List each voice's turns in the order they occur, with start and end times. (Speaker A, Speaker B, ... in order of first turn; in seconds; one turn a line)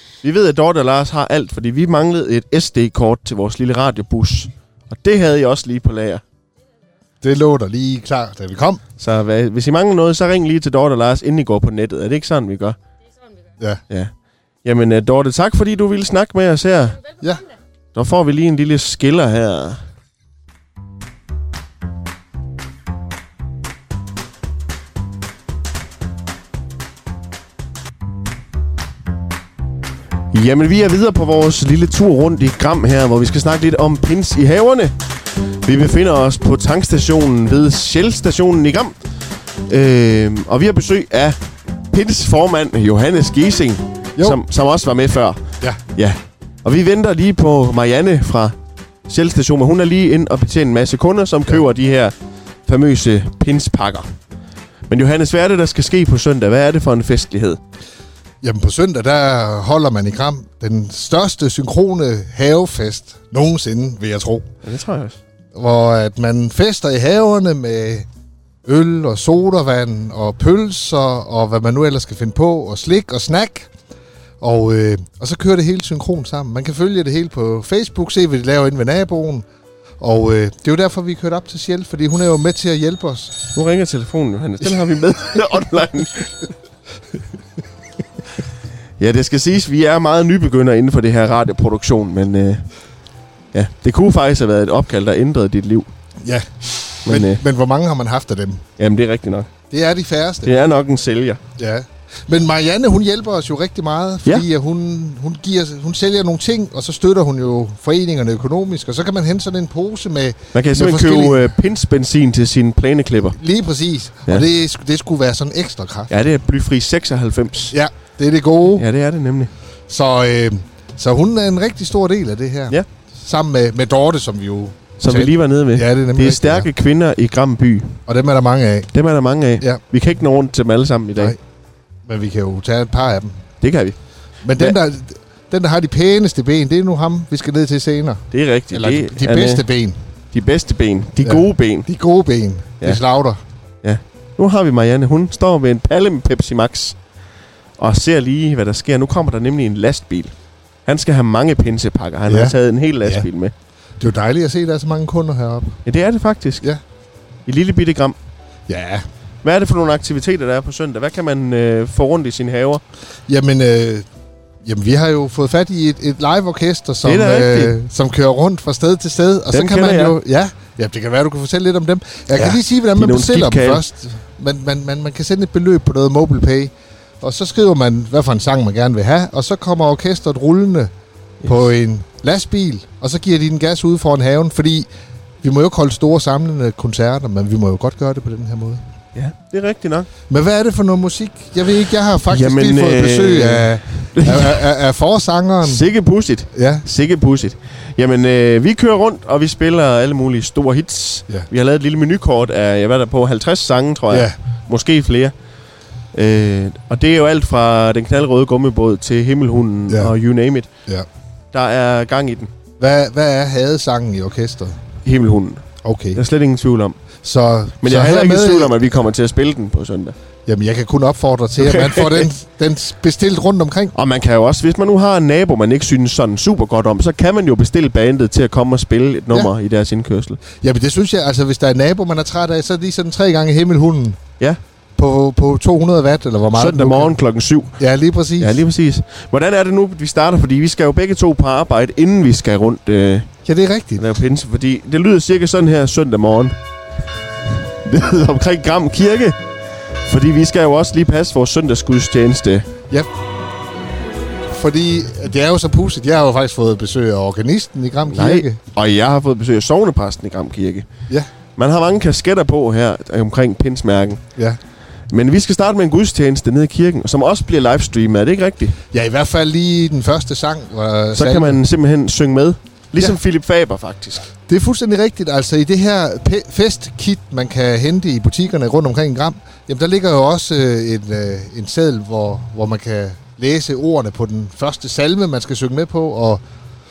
Speaker A: 0.2-6.2
Speaker B: 7.2-8.8
Speaker A: 9.0-12.8
Speaker A: 14.6-17.0
Speaker A: 17.9-19.8
Speaker A: 30.3-35.0
Speaker A: 35.6-38.9
Speaker A: 39.7-41.4
Speaker A: 41.9-45.4
Speaker A: 45.9-48.5
Speaker A: 49.1-52.1
Speaker A: 52.6-54.1
Speaker A: 54.9-57.6
Speaker B: 58.4-64.5
Speaker A: 64.6-65.2
Speaker B: 65.5-68.1
Speaker B: 68.6-73.7
Speaker B: 74.4-79.4
Speaker B: 80.0-83.4
Speaker A: 83.5-86.5
Speaker A: 89.0-92.6
Speaker A: 93.5-95.9
Speaker B: 96.2-98.6
Speaker A: 97.0-97.4
Speaker A: 98.8-99.5
Speaker B: 99.7-100.5
Speaker A: 100.4-101.4
Speaker B: 101.6-111.5
Speaker A: 110.5-113.4
Speaker B: 113.3-116.1
Speaker A: 116.1-117.7
Speaker B: 117.7-118.8
Speaker A: 118.7-119.5
Speaker B: 119.9-126.7
Speaker A: 125.0-128.0
Speaker B: 128.1-128.9
Speaker A: 128.9-131.3
Speaker B: 132.1-133.4
Speaker A: 133.6-133.9
Speaker B: 134.4-140.0
Speaker A: 138.3-139.6
Speaker A: 140.3-141.9
Speaker B: 141.2-143.4
Speaker A: 143.8-146.9
Speaker A: 147.8-150.3
Speaker A: 150.8-153.5
Speaker B: 152.3-153.3
Speaker B: 154.0-155.8
Speaker A: 155.8-156.6
Speaker A: 157.4-158.2
Speaker B: 158.7-159.0
Speaker A: 159.4-162.8
Speaker B: 163.3-164.1
Speaker B: 164.6-184.9
Speaker A: 167.0-167.7
Speaker A: 169.5-170.2
Speaker A: 172.3-173.8
Speaker B: 185.4-188.8
Speaker A: 189.1-190.1
Speaker B: 190.3-195.8
Speaker A: 192.3-194.6
Speaker A: 195.6-205.3
Speaker B: 196.5-196.8
Speaker B: 204.1-204.4
Speaker A: 206.1-210.7
Speaker B: 209.9-210.1
Speaker A: 211.5-212.5
Speaker B: 212.8-214.8
Speaker A: 215.0-215.6
Speaker B: 215.8-216.2
Speaker A: 216.1-217.0
Speaker B: 217.2-218.8
Speaker A: 217.8-220.1
Speaker B: 220.5-223.9
Speaker A: 221.6-222.3
Speaker A: 223.9-230.4
Speaker B: 230.5-234.2
Speaker B: 235.0-237.2
Speaker A: 236.6-237.8
Speaker B: 237.8-238.6
Speaker A: 238.4-243.3
Speaker B: 243.4-244.1
Speaker A: 244.0-246.6
Speaker A: 247.7-249.4
Speaker A: 250.0-252.7
Speaker B: 254.5-258.6
Speaker A: 258.1-260.9
Speaker A: 261.6-264.2
Speaker A: 265.1-268.8
Speaker B: 268.9-271.6
Speaker A: 271.1-274.3
Speaker B: 274.5-286.4